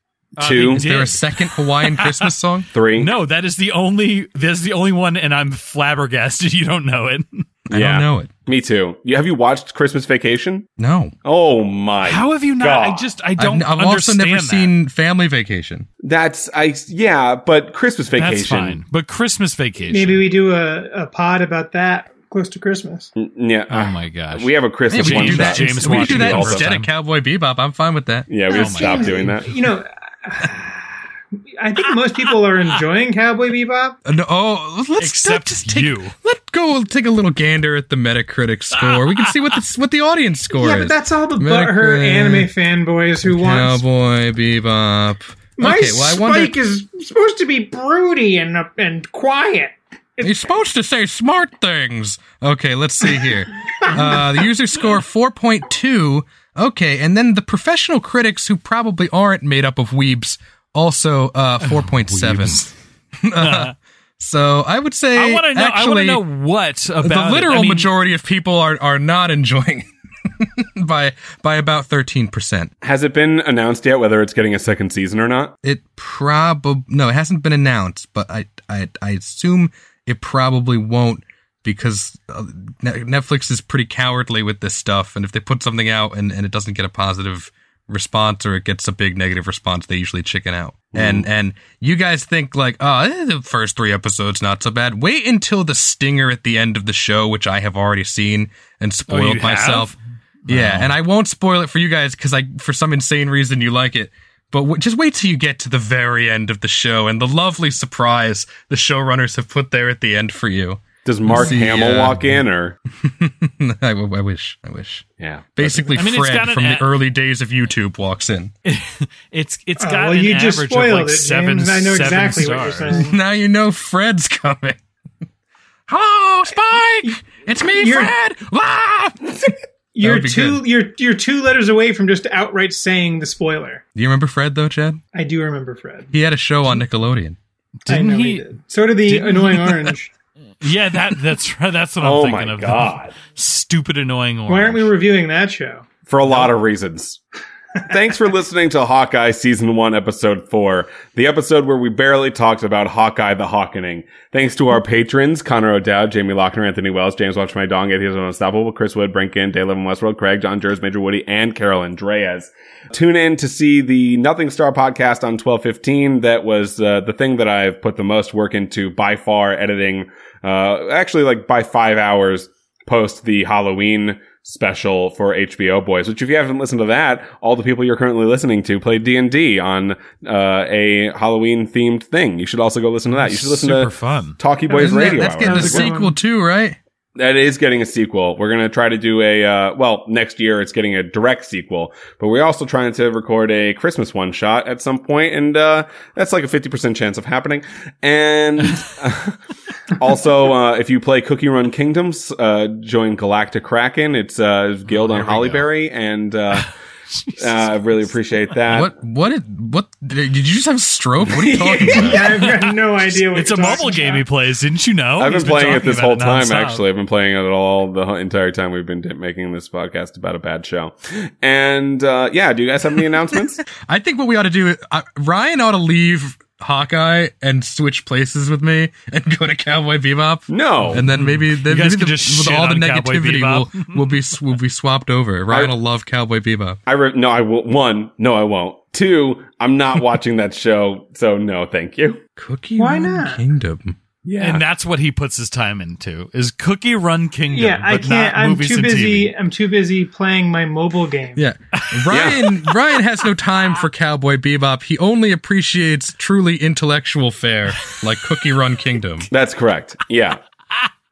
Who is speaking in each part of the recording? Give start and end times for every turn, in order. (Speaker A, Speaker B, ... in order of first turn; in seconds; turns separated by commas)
Speaker A: 0.4-2.3, Speaker B: 0.4-0.9, Speaker C: 0.6-2.7, Speaker B: 2.7-3.1, Speaker A: 3.0-7.5, Speaker C: 7.7-8.3, Speaker B: 7.7-10.7, Speaker C: 10.8-11.1, Speaker B: 11.2-13.1, Speaker A: 12.0-14.7, Speaker C: 13.4-15.9, Speaker B: 16.0-18.8, Speaker A: 18.2-20.2, Speaker D: 19.9-23.1, Speaker B: 23.2-26.7, Speaker A: 23.7-26.9, Speaker C: 24.9-28.3, Speaker B: 28.3-29.6, Speaker A: 28.5-29.4, Speaker D: 28.5-31.0, Speaker D: 31.6-34.0, Speaker C: 34.0-42.5, Speaker A: 35.0-36.1, Speaker A: 38.7-39.6, Speaker D: 40.5-43.8, Speaker C: 43.2-46.5, Speaker D: 45.6-50.5, Speaker C: 50.2-62.7, Speaker A: 61.6-62.7, Speaker C: 63.2-66.2, Speaker A: 63.4-63.7, Speaker A: 65.1-67.9, Speaker C: 67.0-72.7, Speaker B: 72.8-75.5, Speaker C: 75.6-99.9, Speaker B: 90.9-91.3, Speaker A: 99.1-100.9, Speaker C: 100.5-112.4, Speaker B: 111.0-112.8, Speaker C: 113.0-118.5, Speaker B: 115.2-116.0, Speaker A: 115.9-116.9, Speaker A: 118.7-123.1, Speaker D: 119.8-123.2, Speaker C: 122.9-124.8, Speaker C: 125.9-130.7, Speaker D: 127.7-128.2, Speaker D: 129.9-133.8, Speaker C: 133.9-135.0, Speaker D: 135.1-136.1, Speaker C: 136.1-137.4, Speaker A: 137.8-138.5, Speaker D: 137.9-140.1, Speaker A: 139.1-139.9, Speaker A: 140.6-144.9, Speaker B: 142.0-143.2, Speaker D: 144.5-145.9, Speaker B: 146.1-147.2, Speaker B: 147.8-185.9, Speaker A: 183.1-184.4, Speaker D: 184.7-186.2, Speaker C: 184.7-186.8, Speaker B: 187.2-199.4, Speaker B: 199.9-206.7, Speaker A: 204.9-205.7, Speaker B: 207.4-208.9, Speaker C: 208.7-212.3, Speaker D: 211.3-214.2, Speaker A: 212.1-216.8, Speaker B: 215.2-223.6, Speaker C: 223.8-236.8, Speaker B: 230.5-231.0, Speaker A: 230.9-234.2, Speaker B: 235.5-235.7, Speaker B: 236.9-242.2, Speaker C: 242.4-244.0, Speaker D: 242.8-243.4, Speaker B: 244.2-244.6, Speaker A: 244.4-249.3, Speaker D: 247.5-251.4, Speaker C: 251.4-259.3, Speaker A: 251.8-252.7, Speaker B: 252.1-252.5, Speaker B: 259.3-260.4